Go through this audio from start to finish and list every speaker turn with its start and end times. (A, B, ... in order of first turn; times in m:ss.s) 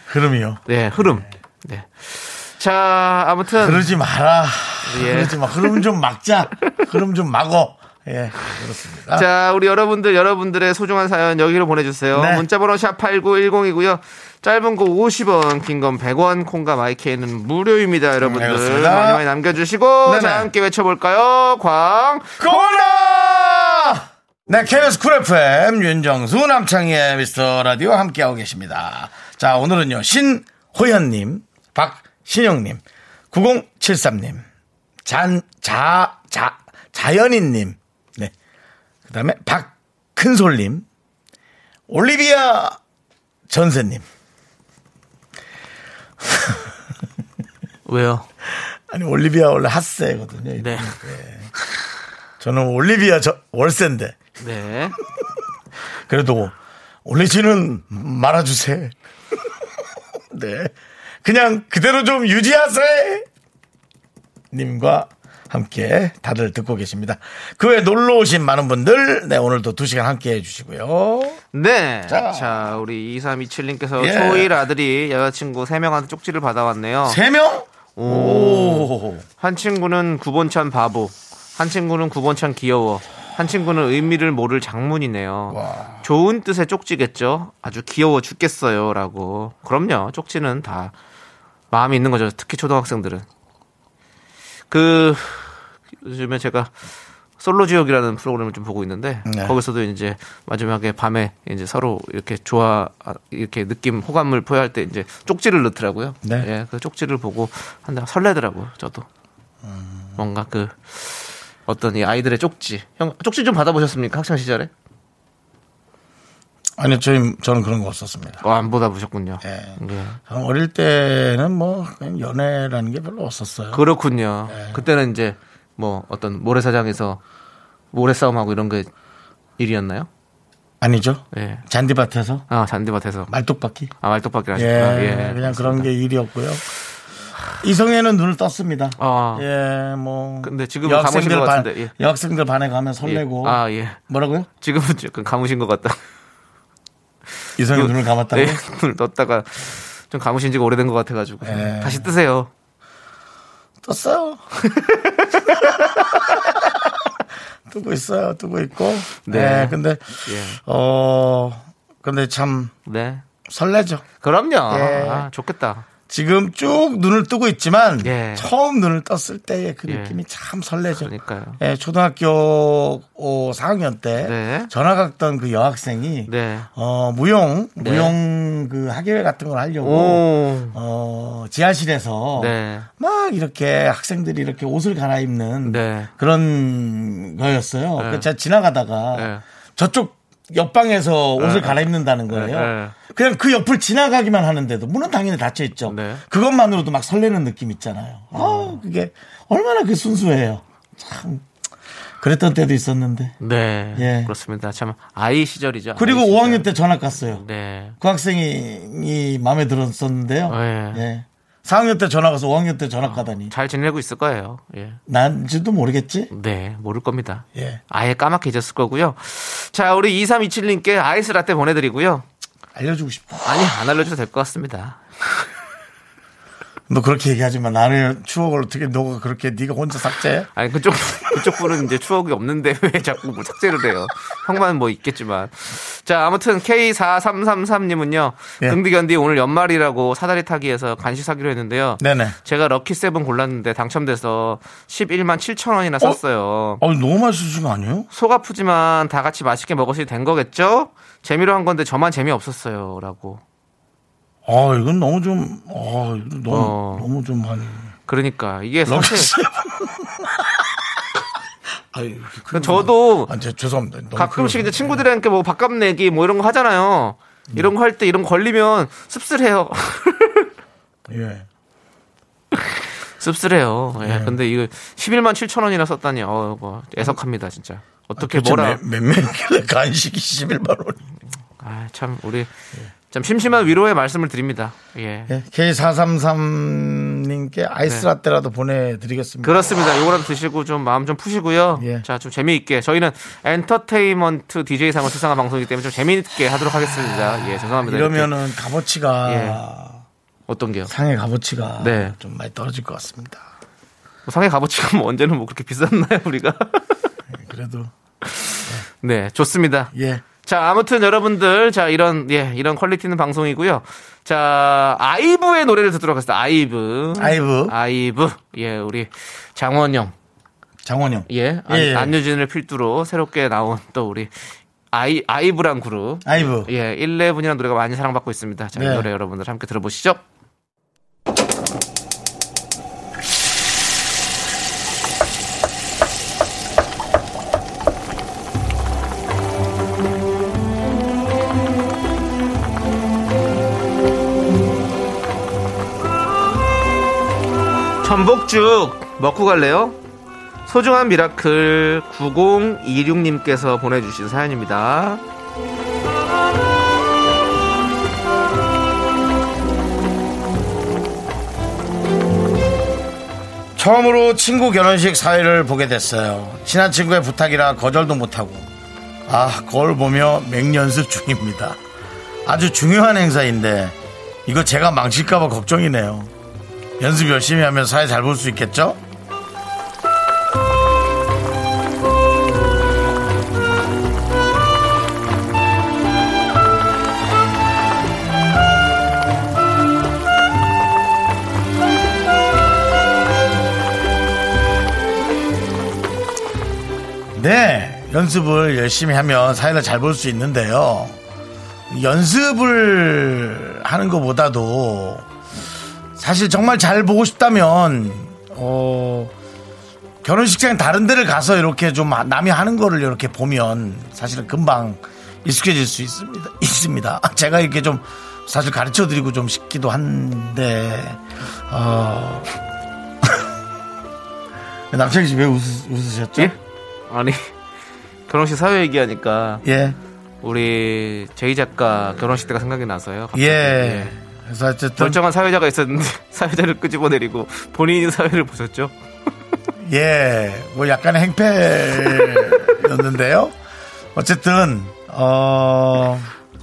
0:00.1-0:01.1 A
0:00.7-0:03.8 B
0:03.6-0:09.3 A
0:04.8-0:05.8 B
0:09.1-0:23.5 B
0:12.1-0:12.5 A
0:18.2-0:19.2 A
0:20.0-0:20.5 A
0:22.4-0:34.4 A
0:35.0-0:38.3 A
0:39.1-0:40.9 A
0:41.9-0:42.8 A
0:43.5-0:44.0 A
0:46.2-0:46.7 A
0:47.9-0:48.3 B
0:48.5-0:51.5 A
0:50.6-0:51.0 B
0:52.4-0:54.2 A
0:54.4-0:55.0 B
0:56.1-0:59.6 A
1:00.3-1:03.3 A
1:04.5-1:11.4 A
1:11.5-1:17.2 B
1:12.1-1:12.8 A
1:14.0-1:14.5 A
1:17.0-1:19.2 A
1:18.0-1:30.9 B
1:25.5-1:26.0 A
1:31.7-1:33.2 B
1:34.7-1:36.7 B
1:37.4-1:49.1 B
1:39.3-1:39.6 A
1:46.2-1:46.5 A
1:49.6-1:50.2 A
1:50.2-1:54.7 B
1:56.8-1:58.4 A
1:58.4-2:00.2 B
1:59.4-2:03.8 A
2:03.7-2:07.2 B
2:04.5-2:04.8 A
2:07.9-2:08.9 B
2:09.6-2:10.1 B
2:10.8-2:12.5 A
2:11.3-2:11.6 B
2:12.5-2:13.3 B
2:13.3-2:13.9 A
2:14.0-2:15.9 B
2:14.5-2:16.6 A
2:17.6-2:24.5 A
2:19.0-2:19.5 B
2:20.4-2:21.9 B
2:23.0-2:24.0 B
2:24.6-2:26.0 B
2:27.6-2:28.6 A
2:27.7-2:32.5 B
2:31.4-2:32.1 A
2:33.8-2:34.4 A
2:34.6-2:36.5 B
2:35.6-2:36.6 A
2:37.7-2:42.7 A
2:39.2-2:40.6 B
2:42.9-2:43.2 B
2:43.5-2:44.0 A
2:44.2-2:45.9 B
2:44.7-2:45.3 A
2:46.1-3:21.4 A
2:48.0-2:48.5 B
2:49.9-2:50.2 B
2:50.9-2:51.6 B
2:54.2-2:54.7 B
2:56.3-2:56.7 B
2:57.8-2:58.2 B
2:59.8-3:00.8 B
3:02.4-3:02.9 B
3:05.6-3:06.1 B
3:08.0-3:08.3 B
3:09.1-3:09.4 B
3:11.4-3:13.0 B
3:15.9-3:16.2 B
3:18.4-3:18.8 B
3:22.2-3:23.4 A
3:23.4-3:26.7 B
3:24.0-3:24.3 A
3:26.0-3:27.4 A
3:27.2-3:28.0 B
3:28.0-3:33.5 A
3:30.5-3:31.0 B
3:33.0-3:35.0 B
3:35.1-3:36.3 A
3:36.3-3:42.3 B
3:37.6-3:37.8 A
3:42.8-3:43.8 A
3:43.5-3:45.0 B
3:46.9-3:50.5 A
3:50.6-4:06.8 B
3:51.4-3:51.6 A
4:02.0-4:02.4 A
4:06.8-4:08.1 A
4:08.1-4:13.4 B
4:14.5-4:17.9 A
4:16.5-4:17.1 B
4:18.1-4:19.3 B
4:18.9-4:21.0 A
4:21.9-4:25.0 A
4:22.5-4:23.3 B
4:24.2-4:30.5 B
4:31.1-4:31.5 A
4:32.5-4:38.8 B
4:34.0-4:34.4 A
4:38.2-4:41.0 A
4:41.6-4:42.5 B
4:43.1-4:45.3 B
4:45.3-4:49.7 A
4:49.4-4:58.3 B
4:51.8-4:52.0 A
4:57.8-5:00.0 A
4:59.3-4:59.6 B
5:00.5-5:00.9 B
5:00.9-5:03.4 A
5:01.8-5:02.2 B
5:04.3-5:07.0 B
5:07.3-5:07.9 A
5:08.3-5:09.9 B
5:09.9-5:10.2 A
5:10.4-5:20.1 B
5:17.2-5:17.7 A
5:20.8-5:22.2 A
5:21.3-5:24.3 B
5:24.9-5:30.2 B
5:26.2-5:26.7 A
5:28.8-5:29.1 A
5:48.0-5:50.0 B
5:50.7-5:55.2 B
6:03.8-6:08.7 A
6:09.3-6:11.8 A
6:12.4-6:16.3 A
6:17.0-6:19.0 A
6:37.3-6:41.2 A
6:41.9-6:45.3 A
6:46.2-6:49.3 A
6:50.2-7:02.5 A
7:04.9-7:06.6 A
7:07.1-7:07.5 B
7:08.3-7:09.6 B
7:09.6-7:10.0 A
7:10.4-7:14.2 B
7:13.3-7:15.2 A
7:15.0-7:18.9 B
7:19.8-7:23.6 A
7:24.2-7:26.3 A